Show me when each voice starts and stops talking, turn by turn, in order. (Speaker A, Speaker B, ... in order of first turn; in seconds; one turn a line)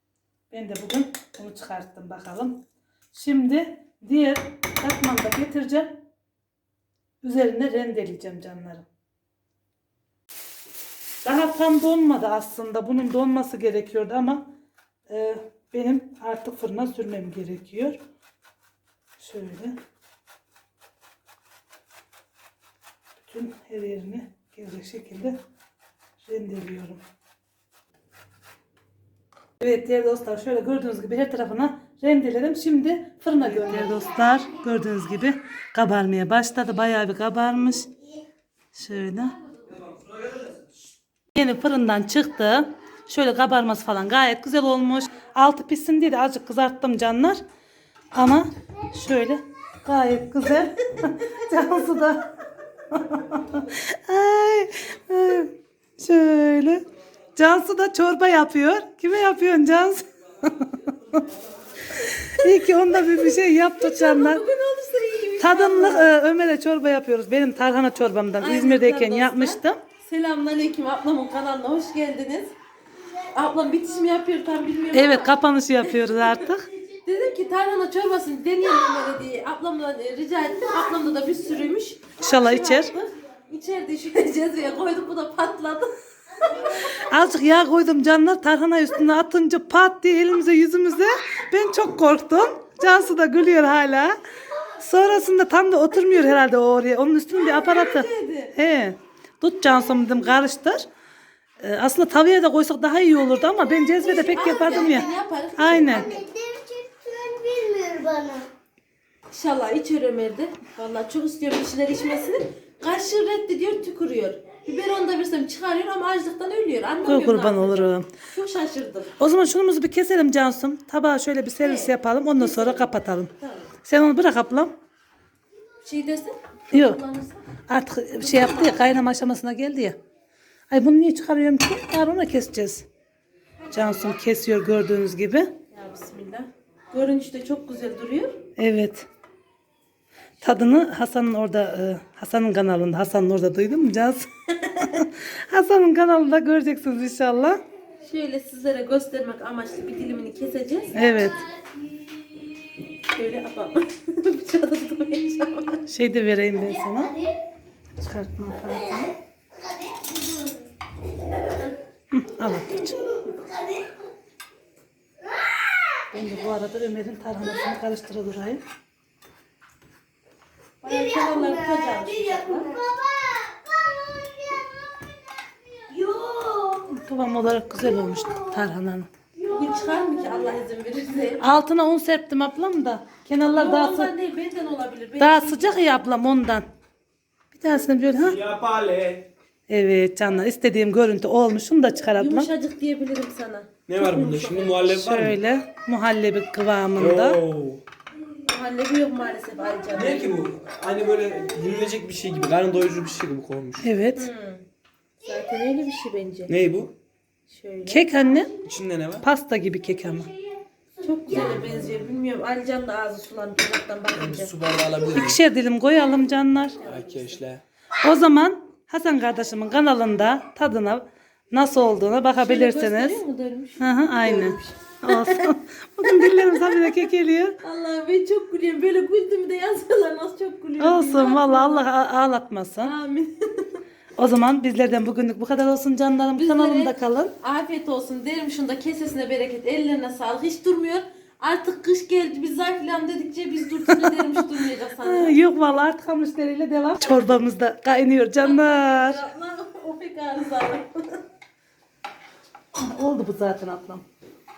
Speaker A: 0.5-6.0
Speaker A: 7.2-8.8
Speaker A: 11.2-14.5
Speaker A: 15.1-18.0
Speaker A: 19.2-19.8
Speaker A: 23.2-25.4
Speaker A: 26.2-27.0
Speaker A: 29.6-37.9
Speaker A: 38.7-39.3
Speaker A: 41.3-47.4
Speaker A: 48.1-52.3
Speaker A: 52.9-61.2
Speaker A: 61.9-64.4
Speaker B: 62.0-66.1
Speaker A: 65.4-69.8
Speaker B: 68.4-72.5
Speaker B: 73.3-76.4
Speaker A: 74.9-76.7
Speaker B: 77.0-86.7
Speaker A: 82.2-82.9
Speaker A: 86.8-94.2
Speaker A: 94.8-100.8
Speaker B: 97.3-98.5
Speaker A: 101.6-106.1
Speaker C: 103.5-108.5
Speaker B: 104.1-106.2
Speaker B: 109.3-119.1
Speaker A: 117.0-118.1
Speaker A: 119.2-123.3
Speaker B: 121.6-123.7
Speaker A: 123.8-124.7
Speaker B: 125.8-127.4
Speaker A: 126.7-127.0
Speaker A: 127.7-130.0
Speaker B: 128.2-129.0
Speaker A: 130.7-132.8
Speaker B: 133.6-134.2
Speaker A: 133.7-135.6
Speaker B: 135.7-138.4
Speaker A: 138.6-139.1
Speaker A: 140.4-147.6
Speaker B: 148.0-150.9
Speaker A: 150.9-151.4
Speaker C: 151.0-152.6
Speaker B: 153.1-155.8
Speaker A: 155.9-157.1
Speaker C: 156.6-157.3
Speaker A: 158.0-159.1
Speaker C: 158.7-159.0
Speaker C: 159.6-160.7
Speaker A: 162.1-163.0
Speaker C: 162.7-163.9
Speaker A: 166.1-168.6
Speaker B: 170.8-172.7
Speaker C: 170.8-175.1
Speaker C: 175.8-177.0
Speaker A: 176.9-179.1
Speaker C: 177.7-178.6
Speaker C: 179.3-180.7
Speaker B: 179.5-181.5
Speaker A: 181.4-184.1
Speaker B: 183.5-185.8
Speaker A: 185.2-186.7
Speaker A: 187.5-188.4
Speaker D: 188.2-189.3
Speaker A: 189.7-192.5
Speaker B: 192.2-194.8
Speaker D: 193.9-195.4
Speaker A: 194.8-197.4
Speaker D: 196.9-197.8
Speaker B: 198.4-200.3
Speaker D: 199.9-203.8
Speaker A: 203.8-204.3
Speaker B: 204.2-204.6
Speaker B: 205.2-206.5
Speaker D: 206.5-206.9
Speaker B: 207.5-208.1
Speaker A: 207.8-208.5
Speaker D: 208.6-209.2
Speaker A: 209.2-210.3
Speaker B: 211.0-214.5
Speaker C: 211.2-211.8
Speaker D: 211.4-211.9
Speaker D: 214.1-215.4
Speaker A: 215.1-216.8
Speaker B: 216.8-217.4
Speaker D: 216.8-217.6
Speaker A: 218.0-223.2
Speaker B: 222.4-227.0
Speaker A: 223.8-227.6
Speaker B: 227.6-231.8
Speaker A: 230.8-232.9
Speaker B: 232.8-233.8
Speaker A: 234.2-237.3
Speaker B: 236.4-245.4
Speaker A: 243.9-244.5
Speaker A: 245.0-249.2
Speaker B: 248.4-251.2
Speaker A: 252.8-254.0